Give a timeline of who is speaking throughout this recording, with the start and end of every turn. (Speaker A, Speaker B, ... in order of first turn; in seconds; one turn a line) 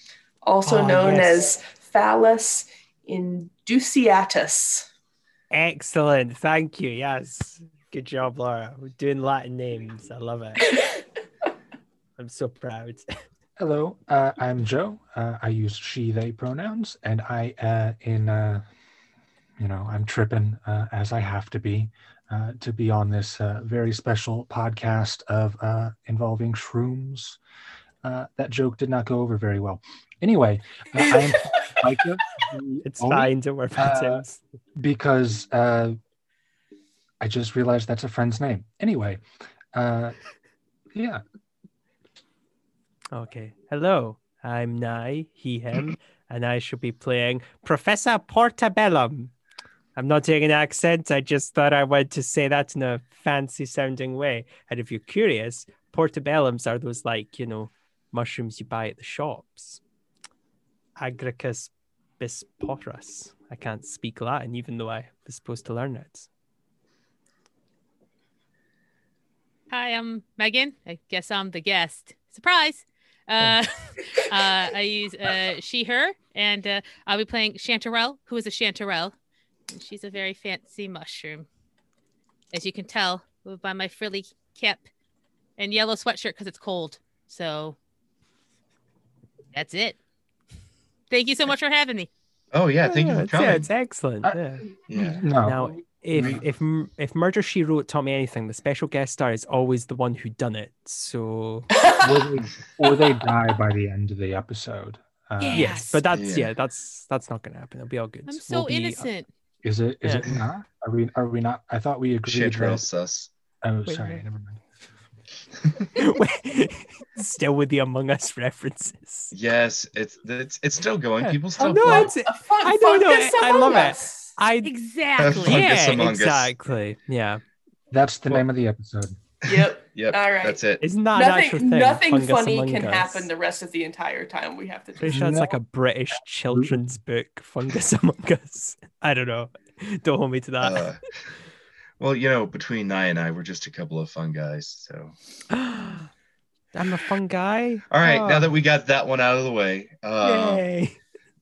Speaker A: 0.4-4.9
Speaker B: 0.6-1.5
Speaker B: 5.5-10.7
Speaker B: 12.2-13.1
Speaker C: 13.6-18.6
Speaker C: 19.6-27.4
Speaker C: 28.0-34.2
Speaker B: 32.8-34.4
Speaker C: 34.8-36.0
Speaker C: 37.2-39.2
Speaker C: 39.7-40.1
Speaker C: 40.9-41.2
Speaker B: 43.1-49.3
Speaker B: 50.0-59.8
Speaker B: 61.0-66.3
Speaker D: 69.7-79.1
Speaker D: 79.7-81.5
Speaker D: 82.5-84.9
Speaker D: 85.6-87.8
Speaker D: 89.5-90.0
Speaker D: 91.1-92.1
Speaker E: 92.5-93.7
Speaker B: 92.8-94.6
Speaker E: 94.9-95.2
Speaker C: 95.0-96.4
Speaker B: 95.4-101.8
Speaker E: 96.1-96.4
Speaker A: 101.8-102.1
Speaker C: 102.0-105.8
Speaker D: 105.4-106.0
Speaker B: 105.5-109.1
Speaker E: 106.1-106.5
Speaker D: 108.3-109.3
Speaker C: 109.6-112.8
Speaker B: 110.0-110.3
Speaker E: 112.2-113.3
Speaker C: 113.6-114.6
Speaker B: 113.9-114.2
Speaker B: 115.9-119.3
Speaker E: 119.3-122.1
Speaker B: 121.2-124.7
Speaker A: 121.6-124.3
Speaker D: 124.6-125.8
Speaker E: 125.2-126.5
Speaker B: 125.2-127.4
Speaker C: 127.9-129.2
Speaker A: 129.4-130.6
Speaker E: 129.5-130.8
Speaker B: 130.8-133.3
Speaker A: 131.1-135.4
Speaker B: 135.0-140.9
Speaker C: 135.1-135.5
Speaker C: 136.5-136.8
Speaker E: 140.6-141.0
Speaker E: 142.0-145.1
Speaker B: 145.5-146.1
Speaker B: 146.7-148.5
Speaker E: 147.9-150.6
Speaker B: 150.2-151.0